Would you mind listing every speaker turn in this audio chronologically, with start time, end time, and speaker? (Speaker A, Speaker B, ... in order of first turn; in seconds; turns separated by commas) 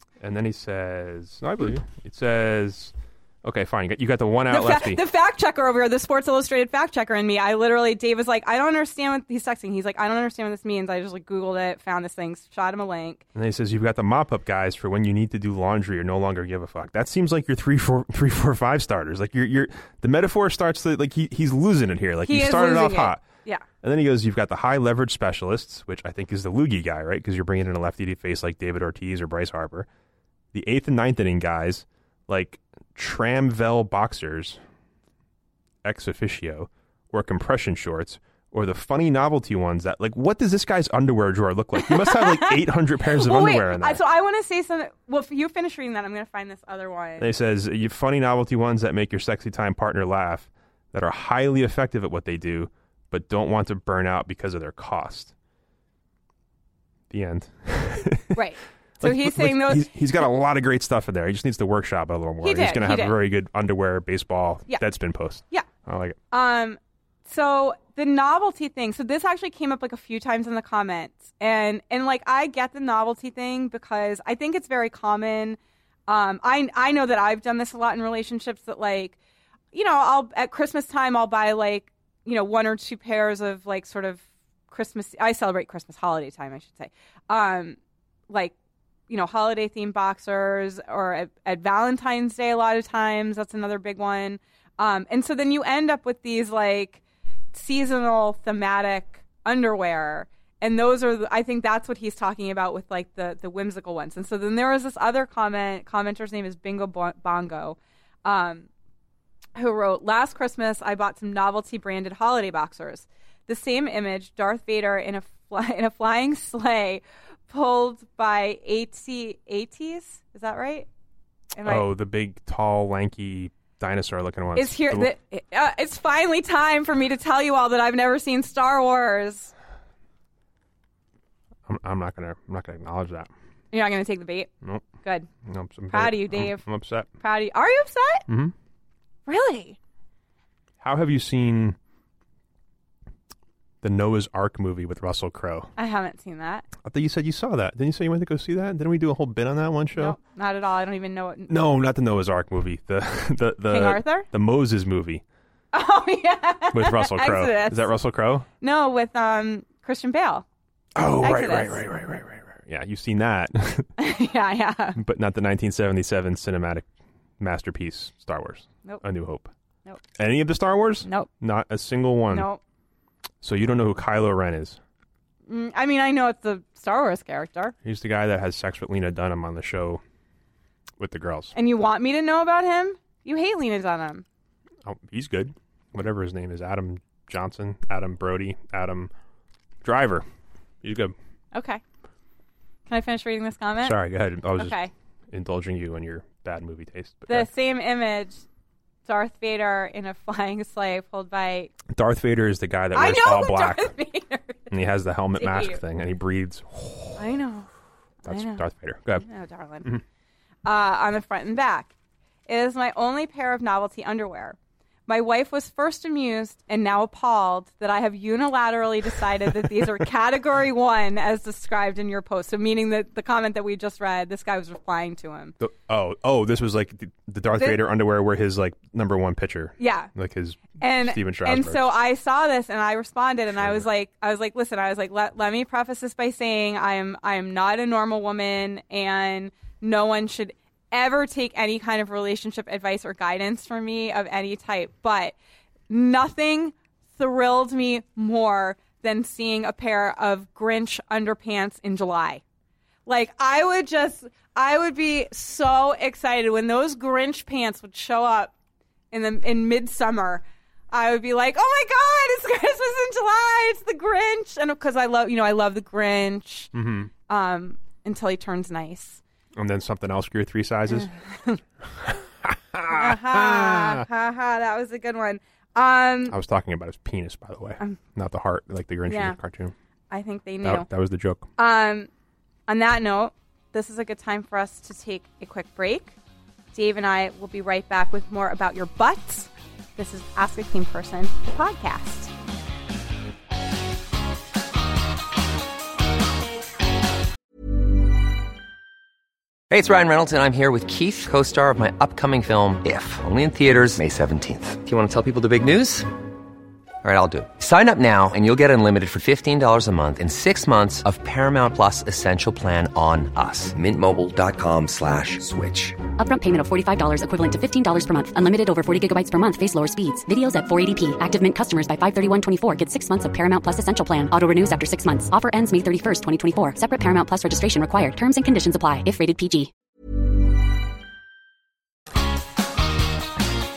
Speaker A: 0.2-5.0, Speaker B: 4.5-13.2, Speaker A: 13.3-23.2, Speaker B: 22.2-23.7, Speaker A: 23.8-29.9, Speaker A: 30.5-34.6, Speaker A: 35.8-44.0, Speaker B: 41.8-47.3, Speaker A: 47.2-55.3, Speaker A: 57.1-58.4, Speaker B: 58.3-59.9, Speaker A: 59.0-66.2, Speaker B: 62.4-63.2, Speaker B: 66.3-79.2, Speaker B: 79.7-87.8, Speaker B: 88.3-88.5, Speaker B: 89.1-97.0, Speaker B: 97.5-108.7, Speaker B: 109.6-120.9, Speaker B: 121.5-121.9, Speaker A: 121.6-125.1, Speaker B: 124.6-129.5, Speaker A: 131.7-133.3, Speaker B: 133.7-134.5, Speaker A: 134.6-134.9, Speaker B: 135.0-135.3, Speaker A: 135.4-137.1, Speaker B: 135.9-136.6, Speaker B: 137.2-138.3, Speaker A: 138.3-138.5, Speaker B: 139.3-139.8, Speaker A: 140.8-141.8, Speaker A: 143.8-145.7, Speaker B: 145.8-146.7, Speaker A: 146.8-150.2, Speaker B: 149.9-151.5, Speaker A: 151.5-155.2, Speaker B: 153.7-154.3, Speaker B: 155.7-157.9, Speaker A: 156.7-158.5, Speaker B: 158.6-160.4, Speaker A: 160.9-163.9, Speaker B: 161.2-161.8, Speaker B: 164.0-165.0, Speaker A: 165.0-166.9, Speaker A: 167.4-169.5, Speaker A: 170.2-172.5, Speaker B: 172.3-172.6, Speaker A: 173.4-174.8, Speaker B: 175.5-177.8, Speaker A: 177.8-180.0, Speaker A: 181.0-181.5, Speaker B: 181.6-184.2, Speaker A: 184.8-189.1, Speaker A: 189.8-190.2, Speaker A: 190.8-191.2, Speaker B: 191.5-191.8, Speaker B: 192.9-194.0, Speaker A: 193.8-194.8, Speaker B: 194.6-194.9, Speaker A: 195.3-197.5, Speaker B: 197.3-198.4, Speaker B: 199.1-201.8, Speaker A: 201.9-203.9, Speaker B: 202.9-204.7, Speaker A: 204.7-207.3, Speaker B: 205.4-205.8, Speaker B: 207.2-207.7, Speaker A: 208.2-209.3, Speaker B: 208.2-208.7, Speaker B: 209.2-209.9, Speaker B: 210.7-211.9, Speaker B: 212.5-225.6, Speaker A: 225.6-232.0, Speaker B: 229.8-230.1, Speaker B: 230.8-245.4, Speaker A: 233.6-233.9, Speaker B: 245.9-252.4, Speaker B: 253.1-258.5, Speaker B: 259.1-266.7, Speaker A: 266.7-267.1, Speaker B: 267.3-269.2, Speaker A: 269.6-271.1, Speaker B: 270.9-271.6, Speaker A: 272.0-274.1, Speaker B: 272.9-276.4, Speaker A: 276.3-279.7, Speaker B: 279.1-279.4, Speaker B: 280.1-280.9, Speaker A: 280.6-281.5, Speaker B: 281.6-282.1, Speaker B: 282.7-286.2, Speaker B: 286.7-292.3, Speaker C: 299.7-306.1, Speaker C: 307.0-316.0, Speaker D: 316.2-329.7